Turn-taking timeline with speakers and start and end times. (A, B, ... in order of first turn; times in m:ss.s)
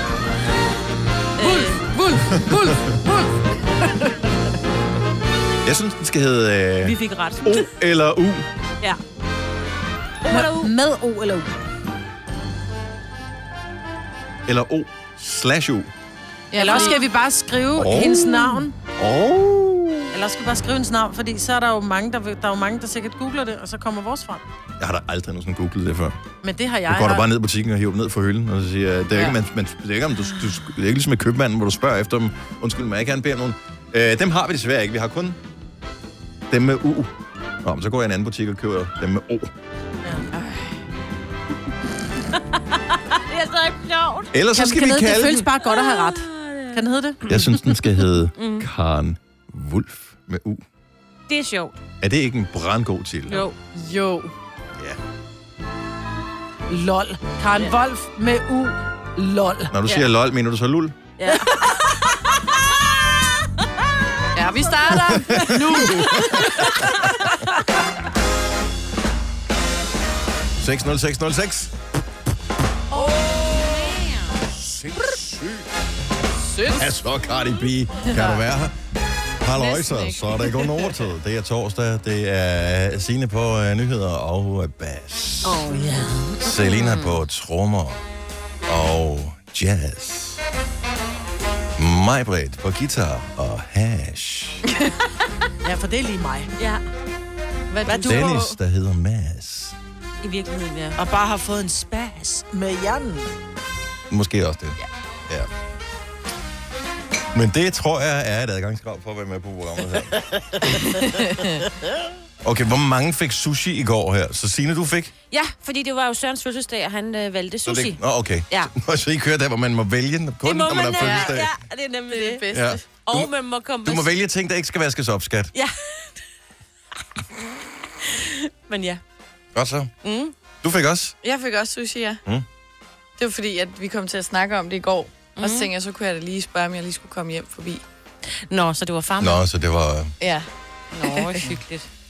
0:01.4-0:01.8 A
0:01.4-0:01.9 B
0:02.0-0:02.7 C
0:02.3-0:02.9 D
0:05.6-0:08.5 D
0:06.8-0:07.7 A
0:10.2-0:10.7 A
0:10.3-0:11.6 B
0:14.5-0:15.9 D
0:16.5-0:17.0 C
0:16.6-0:18.7 B
0:16.7-0:17.0 A
0:17.8-0:20.1 D
0:20.1-0:24.4 B
0:24.8-0:26.2 D
0:26.4-0:27.2 B
0:26.9-0:35.4 D
0:36.5-0:39.5 D
0:40.3-0:40.8 C
0:42.7-0:44.3 A
0:44.3-0:45.4 D
0:44.6-0:47.4 B
0:45.6-0:47.4 A
0:47.3-0:50.6 D
0:48.4-0:48.7 A
0:51.3-0:51.8 A
0:52.0-0:53.4 D
0:53.3-0:53.6 A
0:53.7-0:54.3 C
0:56.7-0:59.7 B
0:59.7-1:01.0 D
1:01.2-1:02.4 A
1:04.3-1:07.0 C
1:05.1-1:06.8 D
1:10.6-1:11.7 D
1:12.9-1:13.7 C
1:12.9-1:14.5 A
1:14.5-1:15.7 D
1:16.4-1:16.9 C
1:16.7-1:18.7 D
1:18.0-1:18.4 C
1:19.4-1:25.7 D
1:19.5-1:21.0 C
1:25.4-1:27.2 A
1:26.4-1:28.0 D
1:28.7-1:30.4 D
1:31.8-1:34.6 D
1:35.6-1:36.5 B
1:36.6-1:36.8 A
1:37.7-1:38.6 C
1:37.9-1:38.3 B
1:38.0-1:39.8 D
1:40.2-1:41.0 A
1:41.0-1:43.3 B
1:44.1-1:45.5 D
1:47.3-1:50.2 D
1:50.3-1:51.0 B
1:50.7-1:51.6 C
1:52.4-1:55.1 D
1:55.3-1:58.7 A
1:57.7-2:01.5 D
2:00.4-2:02.4 A
2:01.0-2:01.4 C
2:02.1-2:02.8 C
2:02.5-2:03.3 D
2:03.0-2:04.1 A
2:03.8-2:05.5 D
2:08.0-2:09.0 A
2:09.6-2:09.9 D
2:10.6-2:11.2 D
2:11.2-2:12.2 C
2:13.2-2:17.8 C
2:15.4-2:15.7 A
2:18.3-2:19.4 A
2:19.2-2:20.1 D
2:20.2-2:21.4 C
2:21.0-2:21.9 A